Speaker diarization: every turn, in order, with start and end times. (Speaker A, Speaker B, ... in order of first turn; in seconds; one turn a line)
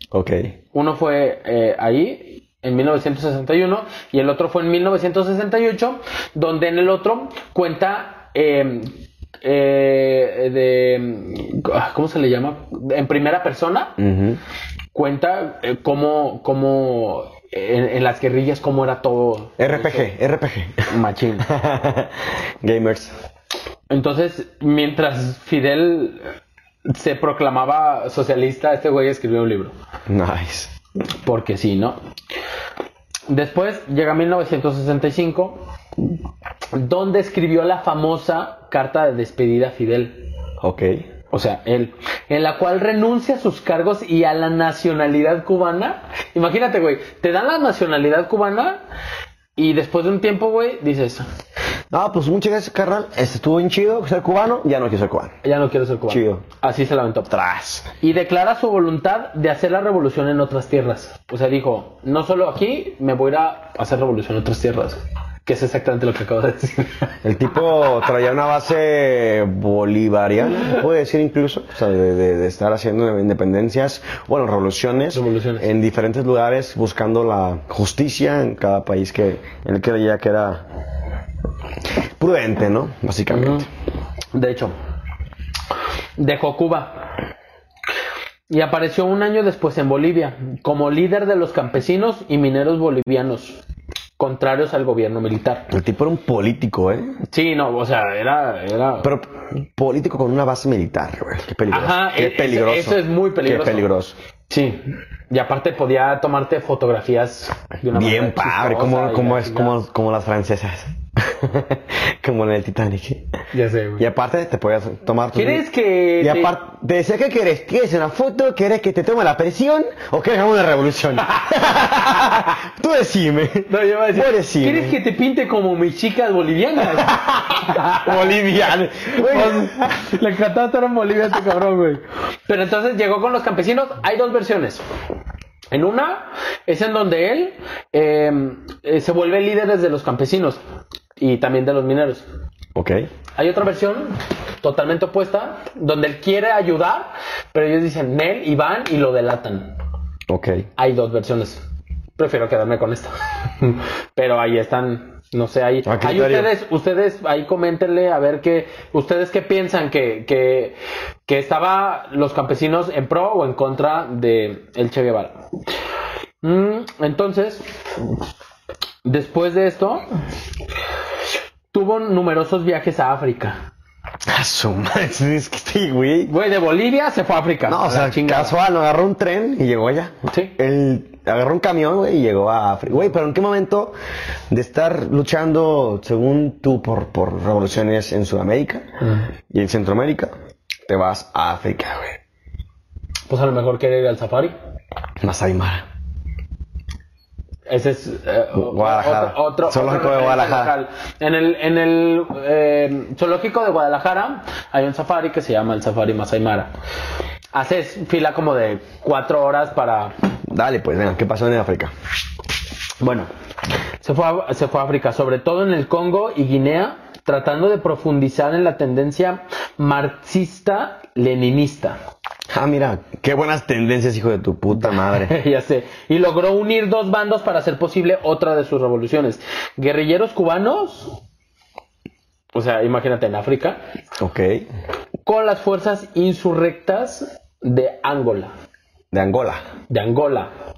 Speaker A: 0.1-0.5
Speaker B: 0.7-8.9
Speaker B: 9.4-14.0
Speaker A: 14.0-14.4
Speaker B: 14.9-20.1
Speaker A: 19.6-20.9
Speaker B: 20.9-21.5
Speaker A: 21.4-23.1
Speaker B: 23.9-26.2
Speaker B: 26.9-29.7
Speaker A: 30.1-30.7
Speaker B: 31.2-32.0
Speaker B: 33.3-35.6
Speaker B: 36.7-40.2
Speaker A: 40.6-41.0
Speaker B: 41.3-48.8
Speaker B: 49.5-51.2
Speaker A: 51.9-55.4
Speaker B: 55.4-57.3
Speaker A: 56.1-56.4
Speaker A: 57.3-57.9
Speaker B: 58.0-67.1
Speaker A: 67.2-80.6
Speaker B: 75.1-75.7
Speaker A: 82.2-83.7
Speaker B: 83.3-83.7
Speaker B: 84.3-84.7
Speaker B: 86.2-87.0
Speaker B: 88.5-93.6
Speaker B: 94.2-95.7
Speaker A: 95.7-97.2
Speaker B: 97.3-99.1
Speaker A: 99.0-104.1
Speaker B: 101.7-103.9
Speaker B: 104.5-109.8
Speaker A: 107.9-113.3
Speaker B: 113.5-114.1
Speaker A: 114.0-115.6
Speaker B: 115.3-116.5
Speaker A: 116.2-125.0
Speaker B: 123.7-128.3
Speaker A: 127.0-130.1
Speaker B: 129.1-134.8
Speaker B: 135.7-140.6
Speaker B: 141.2-142.2
Speaker A: 142.7-143.1
Speaker B: 143.4-149.8
Speaker A: 150.3-150.6
Speaker B: 150.8-151.6
Speaker B: 152.2-165.4
Speaker A: 155.8-156.5
Speaker B: 166.4-167.7
Speaker B: 169.0-170.0
Speaker B: 171.7-173.6
Speaker A: 174.3-176.3
Speaker B: 176.3-178.5
Speaker A: 177.7-183.9
Speaker B: 180.3-180.6
Speaker A: 184.5-188.8
Speaker B: 189.0-189.3
Speaker A: 189.5-190.3
Speaker A: 190.9-192.2
Speaker B: 193.3-194.5
Speaker A: 195.2-195.8
Speaker B: 197.7-206.7
Speaker A: 198.5-200.7
Speaker B: 207.5-210.1
Speaker A: 210.5-211.9
Speaker B: 213.0-213.3
Speaker B: 214.0-222.0
Speaker A: 222.5-225.3
Speaker B: 224.7-231.2
Speaker B: 232.5-233.8
Speaker A: 234.2-234.6
Speaker B: 235.2-238.5
Speaker A: 239.1-239.6
Speaker B: 239.9-240.5